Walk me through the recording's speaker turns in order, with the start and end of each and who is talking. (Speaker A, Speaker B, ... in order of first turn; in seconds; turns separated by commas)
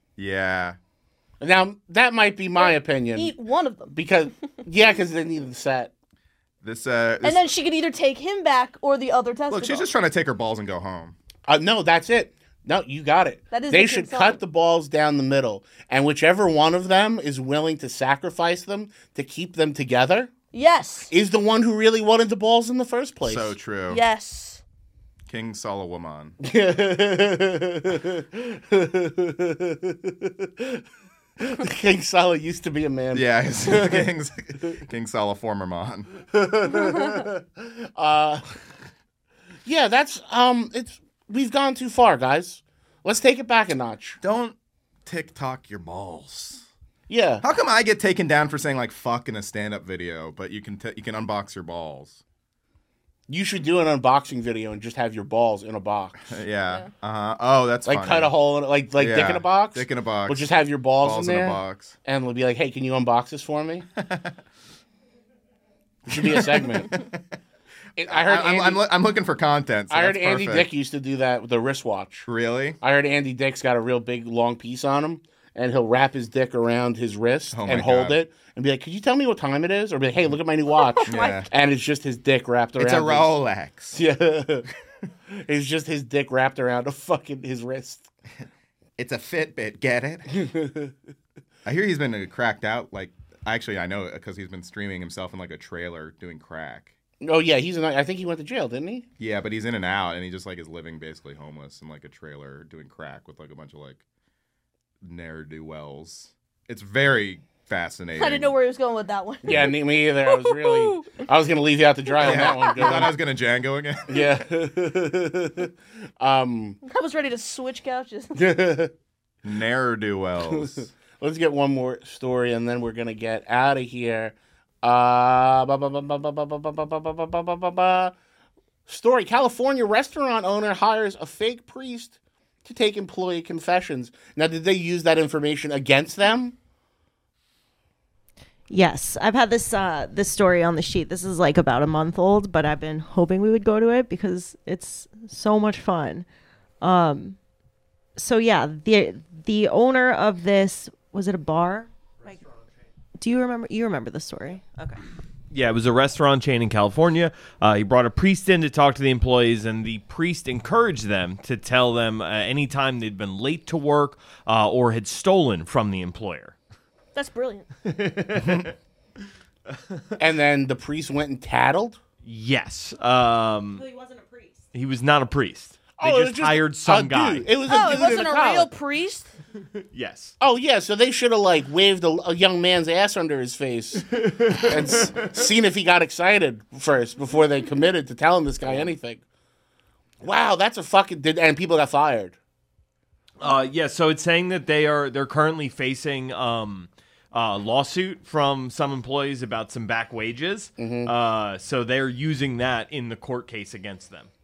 Speaker A: 0.2-0.8, Speaker B: 1.4-3.3, Speaker C: 2.6-3.9, Speaker B: 3.9-5.9, Speaker A: 6.6-7.4, Speaker C: 7.2-9.9, Speaker A: 9.5-11.1, Speaker B: 11.5-20.3, Speaker C: 13.5-14.4, Speaker C: 20.5-21.1, Speaker B: 21.1-23.5, Speaker A: 23.2-24.0, Speaker C: 23.9-24.6, Speaker A: 25.3-26.4, Speaker B: 26.4-30.8, Speaker B: 31.4-34.1, Speaker A: 33.1-36.1, Speaker B: 36.3-38.4, Speaker B: 39.6-44.2, Speaker A: 44.2-46.6, Speaker B: 47.1-47.4, Speaker A: 47.4-52.2, Speaker B: 53.3-56.4, Speaker A: 56.3-58.3, Speaker B: 57.9-63.9, Speaker A: 58.9-60.5, Speaker A: 61.0-62.0, Speaker A: 64.0-64.3, Speaker B: 66.1-66.9, Speaker A: 66.1-67.2, Speaker B: 68.0-68.8, Speaker A: 68.1-70.7, Speaker B: 69.9-72.2, Speaker A: 72.2-72.8, Speaker B: 72.8-83.4, Speaker A: 77.5-78.2, Speaker C: 80.8-81.4, Speaker A: 81.1-81.5, Speaker A: 82.8-84.0, Speaker B: 83.9-84.7, Speaker B: 85.3-88.1, Speaker A: 89.0-90.4, Speaker B: 90.3-90.9, Speaker A: 91.6-96.9, Speaker B: 97.2-99.0, Speaker A: 99.2-104.0, Speaker A: 105.0-108.5, Speaker C: 108.2-111.2, Speaker B: 109.4-113.2, Speaker A: 112.2-114.4, Speaker C: 112.2-112.6, Speaker B: 114.1-116.8, Speaker C: 116.8-118.5, Speaker B: 118.3-118.9, Speaker A: 119.4-120.9, Speaker B: 120.5-128.1, Speaker B: 128.9-136.5, Speaker D: 138.7-146.2, Speaker D: 146.8-147.4, Speaker D: 148.2-152.4, Speaker D: 153.2-155.0, Speaker E: 155.5-166.6, Speaker C: 167.1-167.7, Speaker E: 167.8-168.7, Speaker A: 168.4-168.7, Speaker E: 169.7-170.0, Speaker B: 170.2-172.0, Speaker E: 172.2-173.8, Speaker D: 173.8-174.6, Speaker E: 174.7-177.5, Speaker B: 176.0-178.7, Speaker C: 177.7-179.3, Speaker E: 179.8-180.3, Speaker B: 180.4-189.2, Speaker E: 184.1-185.4, Speaker B: 190.2-192.4, Speaker E: 193.4-204.3, Speaker B: 200.8-201.1